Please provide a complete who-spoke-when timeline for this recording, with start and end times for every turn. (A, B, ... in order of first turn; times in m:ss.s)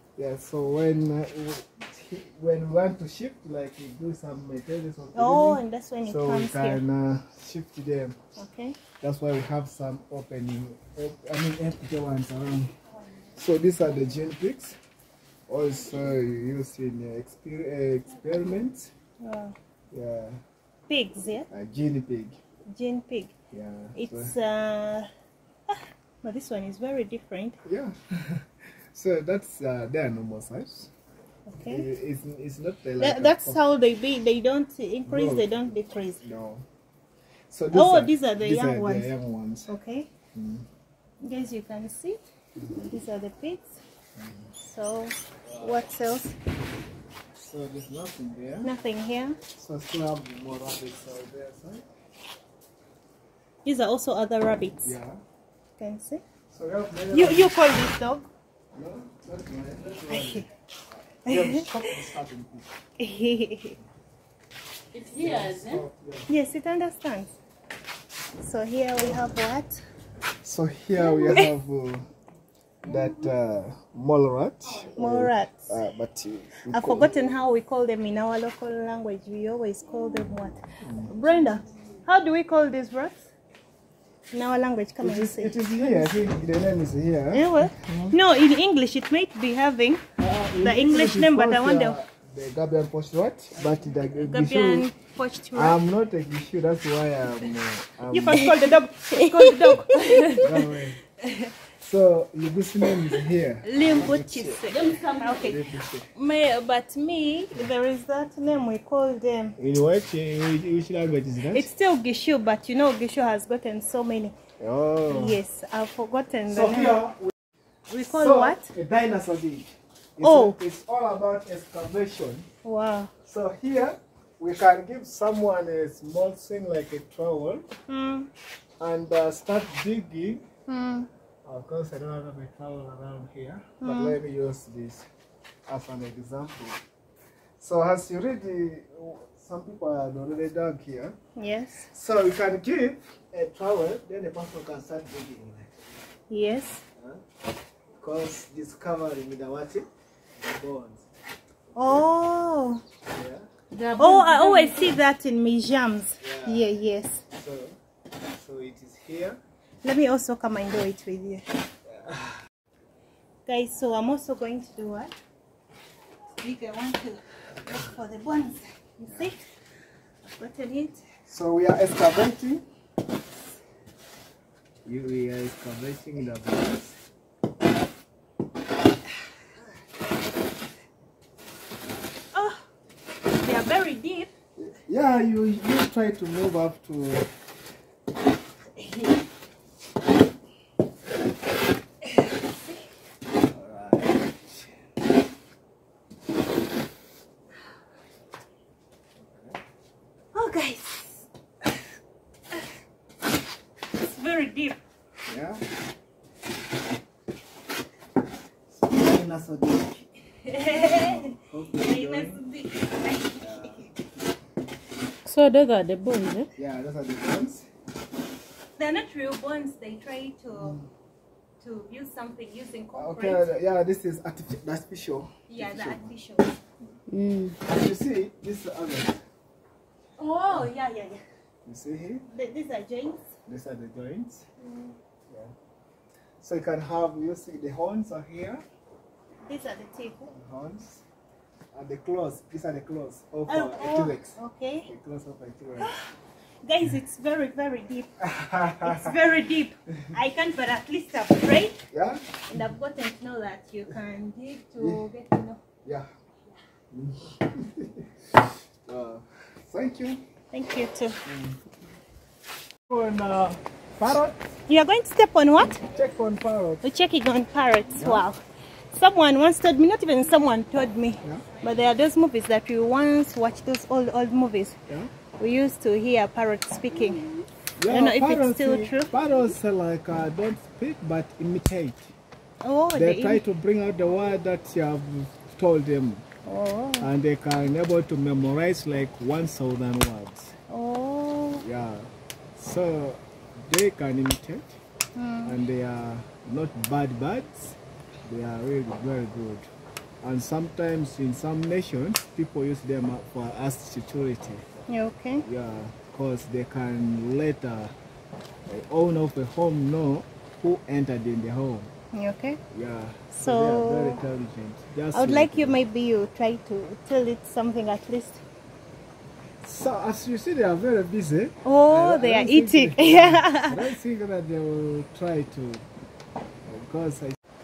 0:00.2-0:08.2 A
0:05.1-0:06.8 B
0:08.4-0:08.8 B
0:09.0-0:12.8 A
0:13.3-0:14.8 A
0:15.5-0:18.9 A
0:19.2-0:19.5 B
0:19.9-0:20.4 A
0:20.9-0:21.5 B
0:21.5-0:22.4 A
0:22.7-0:23.3 B
0:23.5-0:24.3 A
0:24.0-0:25.1 B
0:25.7-0:27.6 B
0:27.6-0:30.9 A
0:31.5-0:31.9 B
0:31.6-0:33.6 A
0:33.0-0:36.2 B
0:35.0-0:35.7 A
0:36.2-0:36.7 A
0:37.5-0:39.7 A
0:37.7-0:39.1 B
0:39.7-0:40.1 B
0:40.3-0:40.6 A
0:41.2-0:43.8 B
0:44.2-0:44.5 A
0:44.6-0:46.4 B
0:45.4-0:45.8 A
0:47.3-0:48.7 A
0:48.6-0:49.4 B
0:49.5-0:51.8 A
0:53.6-0:55.0 B
0:54.8-0:55.2 A
0:55.8-0:56.2 B
0:56.5-0:57.5 A
0:57.1-0:58.3 B
0:58.7-1:02.8 A
1:00.1-1:00.4 B
1:01.3-1:01.7 B
1:03.0-1:03.8 B
1:04.9-1:05.8 C
1:05.1-1:06.3 A
1:06.3-1:07.4 B
1:08.4-1:09.8 B
1:10.4-1:12.1 A
1:11.0-1:11.5 B
1:12.8-1:17.1 A
1:14.9-1:15.7 B
1:16.7-1:23.3 B
1:20.8-1:21.1 A
1:24.3-1:26.1 B
1:25.0-1:28.2 A
1:27.3-1:30.1 B
1:30.2-1:34.9 A
1:30.6-1:32.0 B
1:34.2-1:35.8 B
1:35.5-1:38.5 A
1:38.1-1:40.5 B
1:40.4-1:41.0 A
1:41.2-1:41.5 B
1:41.8-1:46.1 A
1:43.6-1:49.6 B
1:44.7-1:45.5 C
1:49.6-1:51.7 A
1:51.5-1:54.3 B
1:54.6-1:55.4 A
1:55.1-1:57.0 B
1:56.5-1:57.3 A
1:57.9-1:58.7 B
1:58.0-2:02.5 A
2:00.2-2:00.6 B
2:02.6-2:03.1 B
2:03.2-2:07.7 A
2:07.9-2:08.3 B
2:08.8-2:10.4 A
2:10.7-2:11.1 B
2:11.4-2:15.1 A
2:13.8-2:14.2 B
2:15.7-2:16.8 A
2:17.6-2:21.2 A
2:21.4-2:21.9 B
2:21.8-2:25.7 A
2:26.3-2:26.8 B
2:27.0-2:27.2 A
2:28.0-2:29.9 A
2:30.4-2:31.0 A
2:31.7-2:32.8 B
2:33.1-2:33.5 A
2:33.7-2:34.9 C
2:34.0-2:37.2 B
2:36.2-2:36.7 A
2:37.3-2:39.4 A
2:39.8-2:41.6 B
2:41.8-2:42.4 A
2:43.4-2:45.2 B
2:46.4-2:49.5 B
2:50.2-2:51.0 B
2:51.3-2:52.6 A
2:54.8-2:57.0 A
3:02.3-3:02.7 B
3:03.4-3:04.3 B
3:04.6-3:07.3 A
3:13.4-3:14.8 A
3:19.2-3:19.6 A
3:20.3-3:21.3 B
3:23.9-3:24.8 B
3:25.2-3:25.6 A
3:28.7-3:32.4 A
3:30.4-3:33.8 B
3:33.4-3:33.8 A
3:35.2-3:36.5 C
3:36.5-3:37.7 A
3:38.8-3:40.8 B
3:41.6-3:43.5 B
3:43.0-3:46.1 A
3:45.5-3:46.6 B
3:47.1-3:47.6 C
3:47.6-3:49.2 A
3:50.2-3:51.2 B
3:51.6-3:52.2 A
3:52.3-3:53.3 B
3:53.4-3:54.4 A
3:54.6-3:54.9 B
3:56.4-3:58.6 A
3:59.4-4:00.3 B
4:00.3-4:01.0 A
4:01.7-4:05.9 A
4:03.5-4:04.9 B
4:05.8-4:11.9 B
4:08.2-4:09.2 A
4:11.9-4:12.4 A
4:12.5-4:15.6 B
4:14.8-4:15.1 A
4:15.8-4:16.1 A
4:16.9-4:20.2 A
4:20.5-4:21.2 B
4:21.2-4:21.6 A
4:22.9-4:24.6 A
4:24.7-4:25.8 B
4:25.9-4:26.8 A
4:26.8-4:28.4 B
4:28.0-4:28.2 A
4:28.9-4:34.8 B
4:35.4-4:37.3 B
4:37.8-4:42.1 A
4:37.9-4:39.1 B
4:42.6-4:43.4 B
4:42.9-4:46.2 A
4:46.4-4:47.1 B
4:47.0-4:50.6 A
4:50.7-4:51.6 B
4:51.6-4:54.8 A
4:55.1-4:55.6 B
4:55.4-4:59.7 A
5:00.2-5:04.6 A
5:04.9-5:05.4 B
5:05.4-5:07.9 A
5:08.6-5:11.9 A
5:12.1-5:12.6 B
5:12.7-5:15.8 A
5:13.3-5:14.2 B
5:15.1-5:18.4 B
5:19.6-5:25.8 A
5:21.6-5:23.8 B
5:26.6-5:27.4 A